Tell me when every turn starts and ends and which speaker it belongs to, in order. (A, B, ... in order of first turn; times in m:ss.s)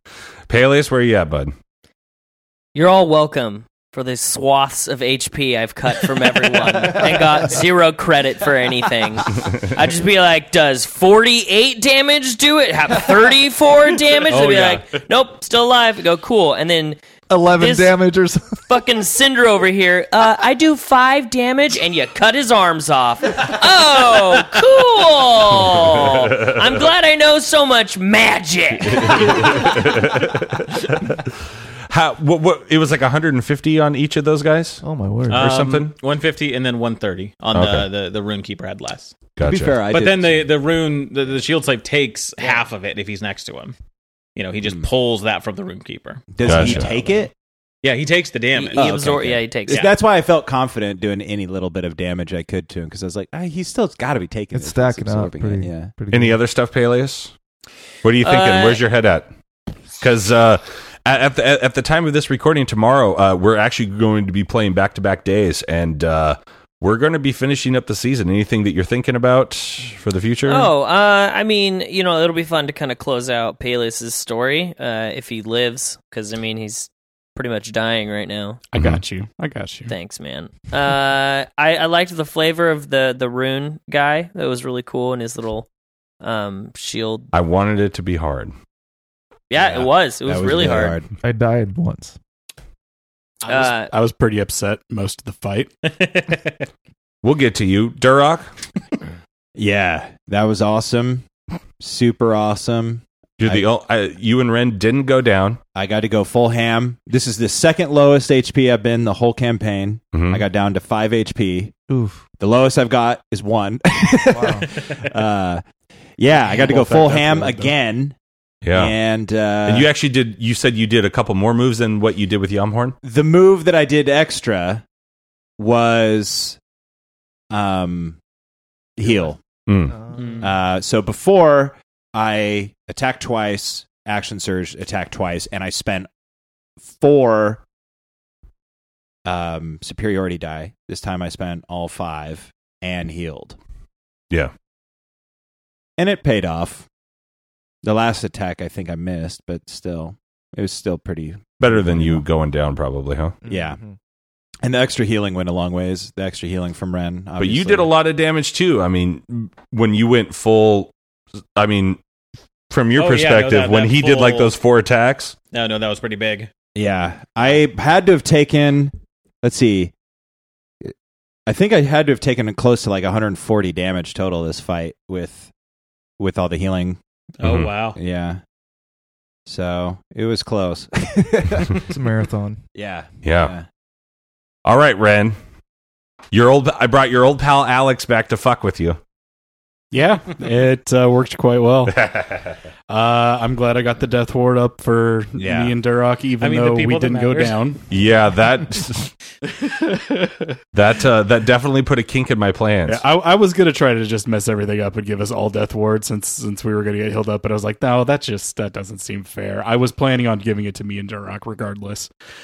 0:00.5-0:01.5 A
0:02.7-0:17.0 B
0:14.3-0:15.0 C
0:17.3-0:18.6 D
0:17.5-0:18.0 B
0:18.7-0:30.0 B
0:29.2-0:30.8 A
0:31.9-0:35.9 A
0:34.8-0:35.5 D
0:35.3-0:39.1 C
0:37.5-0:37.9 A
0:39.4-0:39.8 A
0:39.4-0:40.5 E
0:39.8-0:43.7 C
0:44.4-0:47.1 C
0:46.3-0:47.3 E
0:46.4-0:46.9 A
0:47.8-0:49.0 C
0:48.5-0:49.9 B
0:48.7-0:55.9 E
0:54.5-0:56.4 D
0:56.1-0:57.3 A
0:58.0-0:59.3 A
0:58.2-0:58.8 B
1:00.0-1:10.7 A
1:10.4-1:18.6 B
1:18.7-1:19.9 F
1:18.7-1:19.0 A
1:19.9-1:25.7 B
1:26.2-1:27.3 B
1:27.3-1:28.5 A
1:29.5-1:31.0 B
1:29.6-1:31.1 E
1:31.2-1:32.2 D
1:33.4-1:35.7 F
1:33.5-1:33.9 B
1:35.9-1:36.6 C
1:37.2-1:38.5 A
1:39.6-1:41.2 E
1:41.8-1:43.6 E
1:43.4-1:45.6 A
1:45.7-1:51.7 E
1:50.1-1:50.4 A
1:51.9-1:52.2 D
1:52.4-1:55.6 E
1:54.3-1:54.7 D
1:56.2-1:58.2 E
1:56.3-1:57.7 F
1:58.6-1:58.9 A
1:58.7-1:59.9 E
1:59.6-2:02.9 A
2:03.0-2:04.8 E
2:05.6-2:06.6 E
2:07.5-2:08.2 E
2:09.0-2:09.4 E
2:09.0-2:09.3 D
2:09.7-2:10.0 A
2:09.9-2:10.4 D
2:10.1-2:10.5 C
2:10.4-2:16.1 E
2:16.8-2:17.6 E
2:19.2-2:23.6 E
2:26.0-2:26.9 E
2:27.8-2:32.2 E
2:31.6-2:33.3 A
2:33.4-2:34.0 D
2:33.5-2:33.8 E
2:34.6-2:37.9 E
2:37.4-2:40.9 A
2:41.6-2:42.0 A
2:42.7-2:45.3 A
2:42.9-2:44.6 C
2:45.5-2:46.5 C
2:46.7-2:49.9 E
2:51.5-2:55.5 E
2:56.2-2:57.0 E
2:57.4-2:58.0 C
2:57.4-2:57.7 A
2:57.9-2:58.4 E
2:59.4-3:01.7 E
3:01.3-3:02.6 D
3:02.7-3:03.6 E
3:03.2-3:03.5 A
3:04.6-3:05.4 A
3:06.3-3:09.0 A
3:09.9-3:12.1 F
3:11.9-3:12.5 A
3:12.9-3:17.8 F
3:15.4-3:15.8 E
3:16.4-3:17.7 C
3:17.9-3:19.1 A
3:19.4-3:20.6 F
3:20.7-3:23.0 A
3:22.8-3:32.1 F